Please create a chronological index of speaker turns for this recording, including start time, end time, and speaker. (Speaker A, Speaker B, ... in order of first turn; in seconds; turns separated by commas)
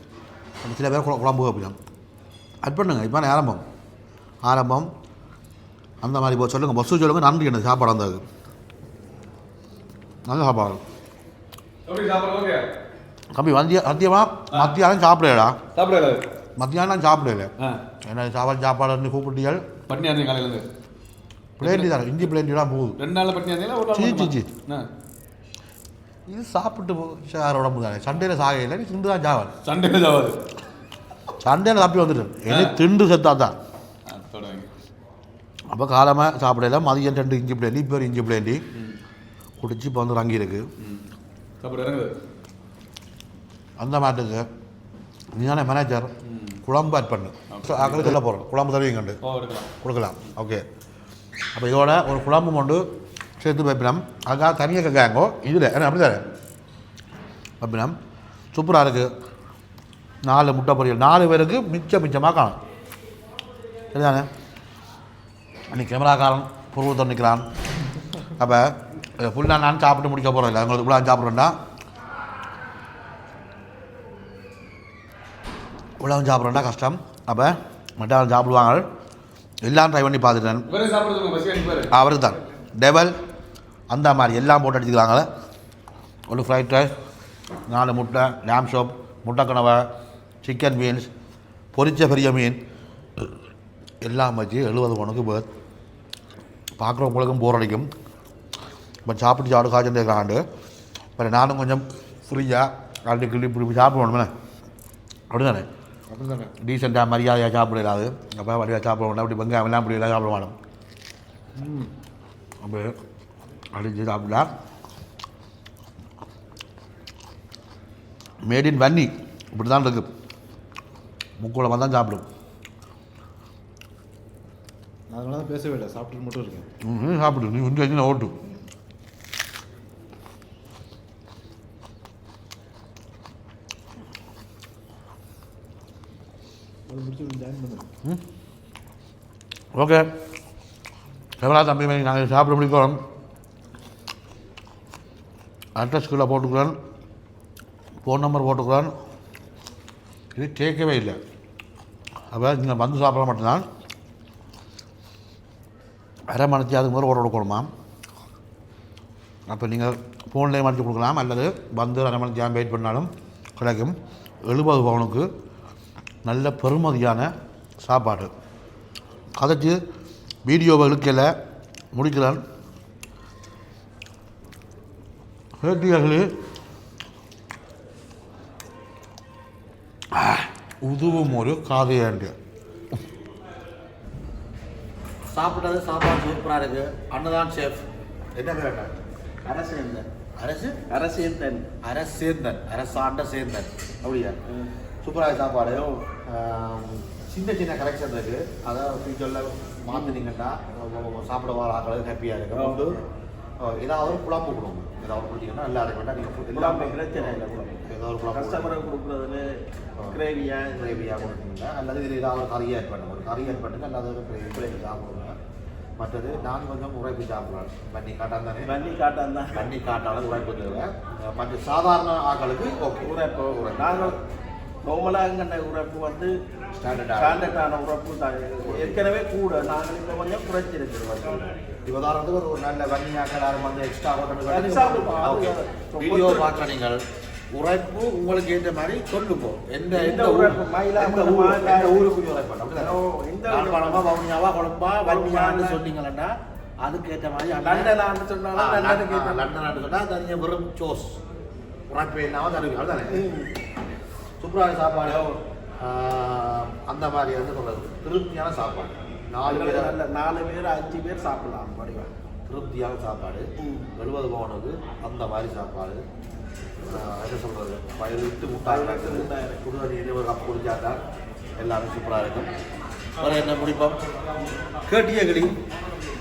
Speaker A: 0.6-1.8, Speaker A: 2.6-3.6, Speaker A: 4.4-4.9, Speaker A: 6.0-8.2, Speaker A: 10.3-10.8, Speaker B: 11.9-12.7, Speaker A: 13.3-15.6, Speaker B: 15.8-16.2, Speaker A: 16.6-17.5, Speaker A: 18.0-19.6, Speaker B: 19.9-20.6, Speaker A: 21.6-23.0, Speaker B: 21.6-22.0, Speaker B: 23.0-24.9, Speaker A: 23.9-24.5, Speaker A: 26.3-29.5, Speaker B: 29.6-30.4, Speaker A: 31.4-33.6, Speaker B: 32.5-32.8, Speaker B: 34.1-34.7, Speaker A: 35.7-38.6, Speaker A: 39.6-40.7, Speaker B: 40.8-41.0, Speaker B: 41.6-42.1, Speaker A: 43.8-44.5, Speaker A: 45.3-46.1, Speaker B: 46.2-46.6, Speaker A: 46.6-49.2, Speaker B: 47.5-48.2, Speaker B: 49.2-49.7, Speaker A: 49.8-50.6, Speaker A: 51.5-52.8, Speaker A: 53.4-56.2, Speaker A: 57.6-58.0, Speaker A: 58.5-59.1, Speaker A: 60.3-62.6, Speaker A: 63.9-64.3, Speaker A: 65.7-67.5, Speaker A: 68.4-71.5, Speaker A: 76.0-78.8, Speaker A: 79.6-80.7, Speaker B: 80.7-81.9, Speaker A: 81.9-83.1, Speaker A: 83.9-85.3, Speaker A: 86.3-86.9, Speaker A: 87.7-89.9, Speaker A: 90.4-91.1, Speaker A: 91.7-92.6, Speaker A: 94.0-95.5, Speaker A: 96.8-97.9, Speaker A: 99.0-100.4, Speaker A: 101.2-104.3, Speaker A: 105.3-105.7, Speaker C: 106.1-106.5, Speaker A: 106.6-110.6, Speaker C: 111.6-111.9, Speaker A: 112.6-113.0, Speaker A: 113.7-114.5, Speaker A: 118.4-120.1, Speaker A: 121.4-122.2, Speaker C: 125.1-126.7, Speaker A: 126.8-128.3, Speaker C: 136.9-137.8, Speaker A: 139.8-140.1, Speaker A: 141.4-143.0, Speaker A: 145.8-146.8, Speaker A: 148.0-148.9, Speaker A: 150.3-151.2, Speaker A: 152.3-153.7, Speaker A: 156.3-157.7, Speaker A: 159.5-165.3, Speaker A: 166.2-167.3, Speaker A: 167.8-168.3, Speaker A: 169.4-169.8, Speaker A: 170.4-171.3, Speaker A: 171.9-172.4, Speaker A: 175.6-176.3, Speaker A: 180.1-182.3, Speaker A: 185.3-187.8, Speaker A: 188.4-188.9, Speaker D: 189.4-190.1, Speaker A: 190.4-190.8, Speaker D: 190.9-191.7, Speaker A: 191.8-194.4, Speaker A: 195.0-203.0, Speaker D: 195.7-196.0, Speaker D: 199.9-200.2, Speaker D: 202.5-203.0, Speaker A: 203.6-208.8, Speaker D: 206.5-209.5, Speaker A: 210.0-215.3, Speaker D: 210.1-211.1, Speaker A: 216.0-218.7, Speaker D: 218.6-219.7, Speaker A: 219.5-224.2, Speaker D: 223.0-224.2, Speaker D: 224.8-226.3, Speaker A: 226.8-227.6, Speaker D: 227.1-231.5, Speaker A: 228.6-229.0, Speaker A: 231.9-237.0, Speaker D: 234.5-236.5, Speaker A: 237.5-251.2, Speaker D: 239.9-242.1, Speaker D: 242.8-244.1, Speaker D: 245.0-245.8, Speaker D: 247.6-249.4, Speaker A: 251.9-253.3, Speaker D: 253.1-253.5, Speaker A: 254.4-260.0, Speaker D: 255.1-255.4, Speaker D: 259.4-262.1, Speaker A: 262.5-266.0, Speaker A: 266.9-271.0, Speaker D: 268.5-269.6, Speaker A: 271.6-272.5, Speaker A: 273.2-274.0, Speaker A: 274.8-275.5